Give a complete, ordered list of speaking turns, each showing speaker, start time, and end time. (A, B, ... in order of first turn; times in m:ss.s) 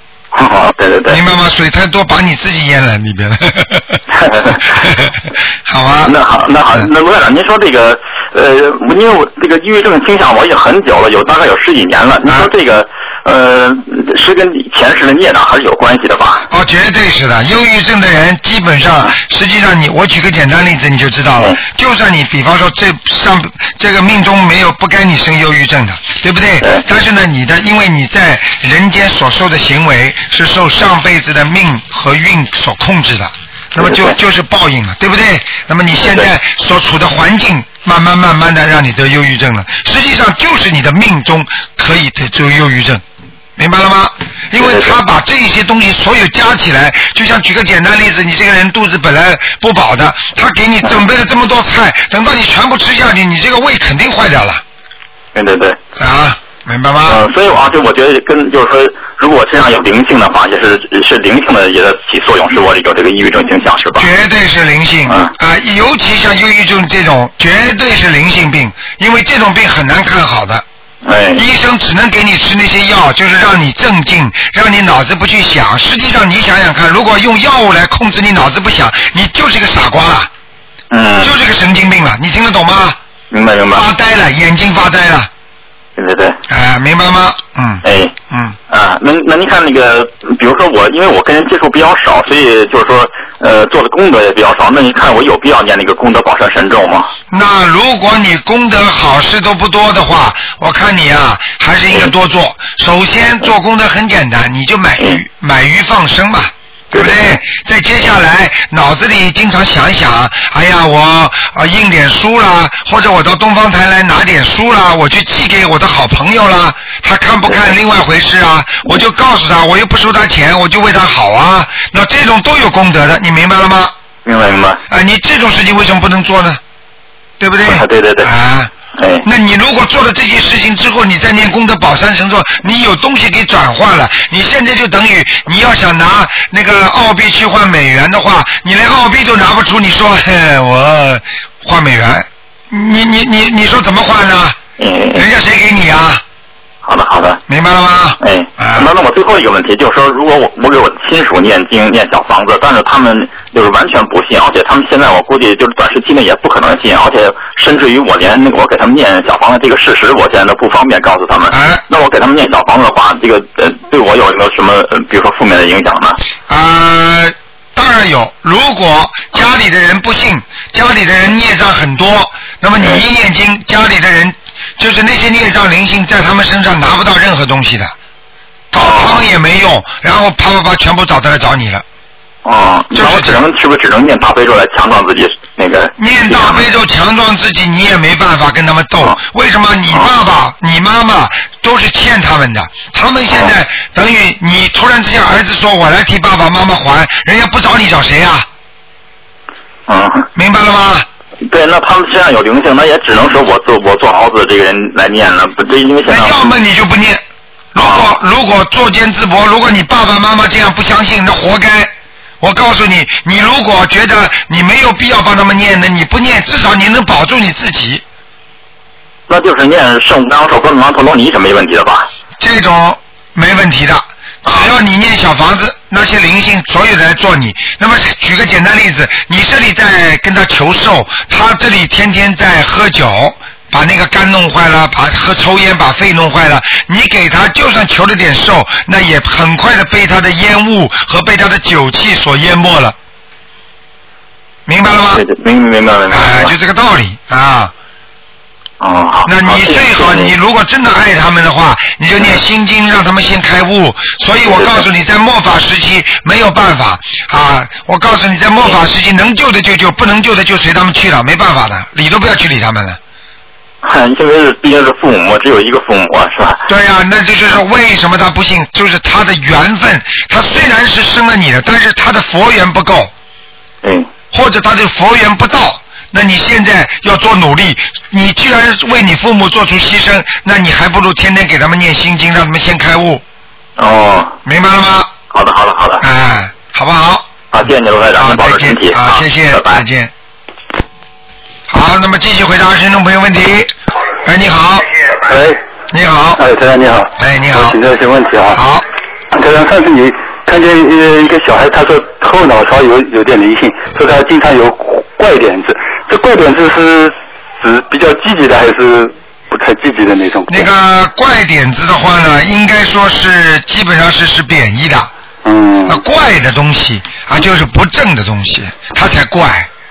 0:00.3-0:01.2 A
0:01.1-0:04.0 B
0:04.1-0:04.9 A
0:04.7-0:05.1 B
0:05.7-0:06.2 B
0:06.0-0:16.5 A
0:16.5-0:43.0 B
0:33.8-0:34.2 A
0:36.0-0:36.2 A
0:43.6-0:54.6 B
0:44.5-0:45.0 A
0:55.3-0:55.8 A
0:56.0-0:57.2 B
0:57.1-1:04.1 A
1:04.0-1:10.6 B
1:05.1-1:05.3 A
1:11.0-1:11.4 A
1:11.3-1:20.3 B
1:20.9-1:21.3 A
1:21.2-1:23.0 B
1:23.3-1:23.8 A
1:23.7-1:25.3 B
1:26.0-1:26.4 A
1:26.5-1:28.6 B
1:27.8-1:28.1 A
1:28.7-1:37.1 A
1:37.3-2:03.9 B
1:46.9-1:47.4 A
2:04.2-2:04.8 A
2:04.9-2:06.6 B
2:07.4-2:08.7 B
2:07.6-2:08.3 A
2:09.0-2:09.2 A
2:09.2-2:24.6 B
2:24.8-2:25.2 A
2:25.1-2:26.2 B
2:26.8-2:27.4 A
2:27.5-2:28.9 B
2:28.2-2:46.2 A
2:41.5-2:41.8 B
2:46.5-2:57.9 B
2:58.7-3:01.8 B
2:58.7-2:59.2 A
3:02.4-3:06.7 A
3:02.9-3:03.4 B
3:06.0-3:18.5 B
3:19.9-3:20.3 A
3:20.3-3:21.1 B
3:21.4-3:26.5 A
3:26.0-3:27.2 B
3:27.7-3:38.0 B
3:27.8-3:28.1 A
3:39.3-3:42.1 A
3:42.4-4:02.9 B
3:44.4-3:44.7 A
4:04.7-4:05.2 B
4:05.1-4:06.5 A
4:06.1-4:07.7 B
4:08.8-4:10.3 A
4:09.2-4:23.0 B
4:14.4-4:14.8 A
4:23.8-4:26.6 A
4:26.7-4:33.1 B
4:33.8-4:34.1 A
4:34.3-4:43.2 B
4:43.8-4:44.3 A
4:44.4-4:45.1 B
4:45.3-4:46.0 A
4:46.0-4:47.3 B
4:47.5-4:49.8 A
4:48.2-4:50.1 B
4:51.7-4:54.9 B
4:55.2-4:55.6 C
4:55.9-4:56.4 B
4:56.4-4:58.6 C
4:57.2-4:57.8 B
4:58.5-4:58.8 B
4:59.3-5:10.7 C
5:10.5-5:15.1 B
5:15.4-5:16.0 C
5:15.8-5:19.7 B